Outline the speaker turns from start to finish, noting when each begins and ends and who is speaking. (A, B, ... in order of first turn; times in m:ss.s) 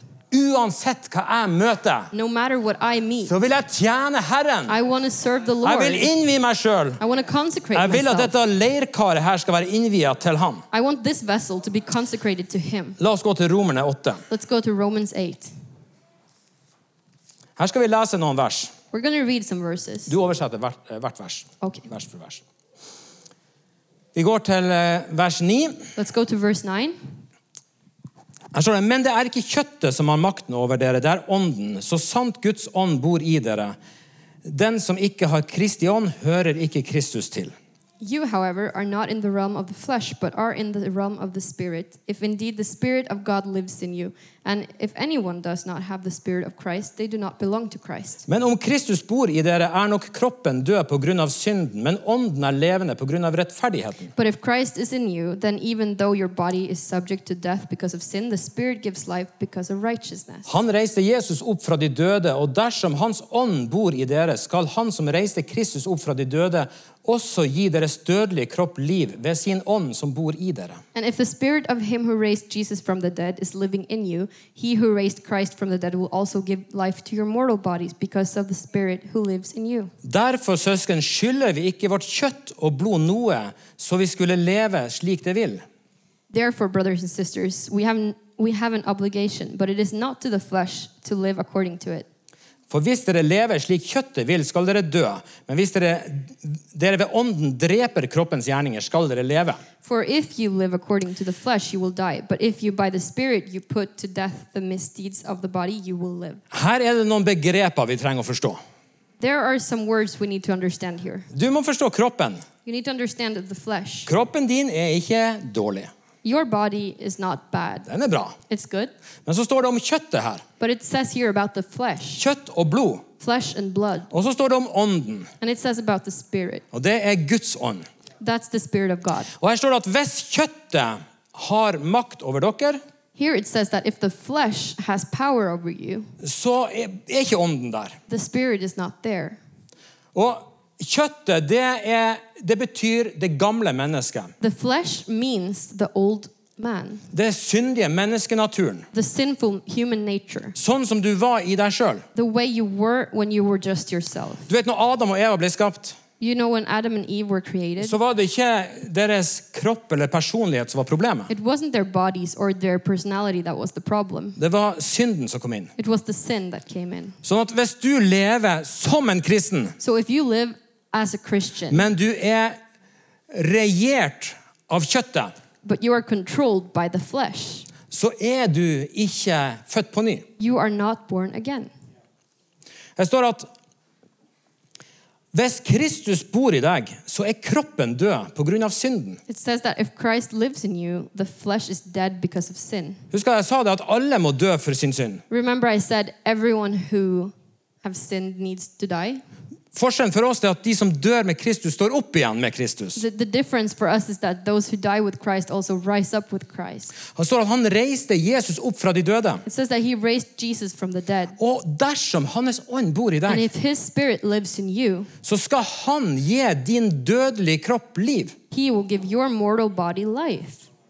0:00.3-0:02.1 A
0:02.1-0:03.3 B
0:03.2-0:04.8 A
0:04.7-0:06.1 B
0:05.6-0:07.0 A
0:07.0-0:08.3 B
0:07.7-0:10.6 A
0:10.7-0:13.0 B
0:13.0-0:14.2 A
0:14.3-0:15.5 B
0:17.6-0:18.7 A
0:18.9-0:20.1 B
0:20.1-0:22.4 A
0:21.6-0:21.9 B
0:24.1-0:25.8 A
0:26.0-0:27.0 B
0:28.5-0:33.7 A
0:34.4-0:37.5 A
0:38.0-0:48.2 B
0:48.3-0:54.1 A
0:54.2-1:00.5 B
1:00.4-1:10.8 A
1:10.9-1:19.9 B
1:20.0-1:25.6 A
1:26.3-1:32.1 B
1:32.7-1:39.6 A
1:39.8-1:46.4 B
1:46.5-1:48.6 A
1:49.2-1:51.3 B
1:51.3-1:52.4 A
1:52.6-1:54.1 B
1:54.1-1:55.9 A
1:56.2-1:57.9 B
1:57.9-1:58.4 A
1:58.5-1:58.9 B
1:59.2-2:00.4 A
2:00.6-2:02.2 B
2:02.2-2:03.0 A
2:03.2-2:04.1 B
2:04.1-2:05.3 A
2:05.4-2:06.6 B
2:06.7-2:07.8 A
2:08.2-2:09.3 B
2:09.4-2:12.8 A
2:13.2-2:16.1 B
2:16.2-2:18.0 A
2:18.1-2:19.4 B
2:20.1-2:24.3 A
2:24.4-2:27.0 B
2:27.1-2:28.9 A
2:28.9-2:30.6 B
2:30.6-2:32.0 A
2:32.1-2:34.5 B
2:34.5-2:36.0 A
2:36.2-2:38.0 B
2:37.8-2:41.3 A
2:41.3-2:44.4 B
2:44.4-2:45.7 A
2:45.8-2:47.2 B
2:47.2-2:49.8 A
2:49.8-2:51.9 B
2:51.7-2:52.6 A
2:53.3-2:55.3 A
2:55.6-2:57.7 B
2:57.9-3:00.2 A
3:00.4-3:01.7 B
3:03.0-3:03.5 A
3:05.3-3:09.2 A
3:09.3-3:13.0 B
3:13.1-3:15.2 A
3:15.3-3:19.2 B
3:19.7-3:23.0 A
3:23.0-3:26.9 B
3:27.1-3:29.4 A
3:29.4-3:31.4 B
3:31.4-3:33.5 A
3:33.3-3:35.1 B
3:35.2-3:38.3 A
3:38.5-3:40.7 B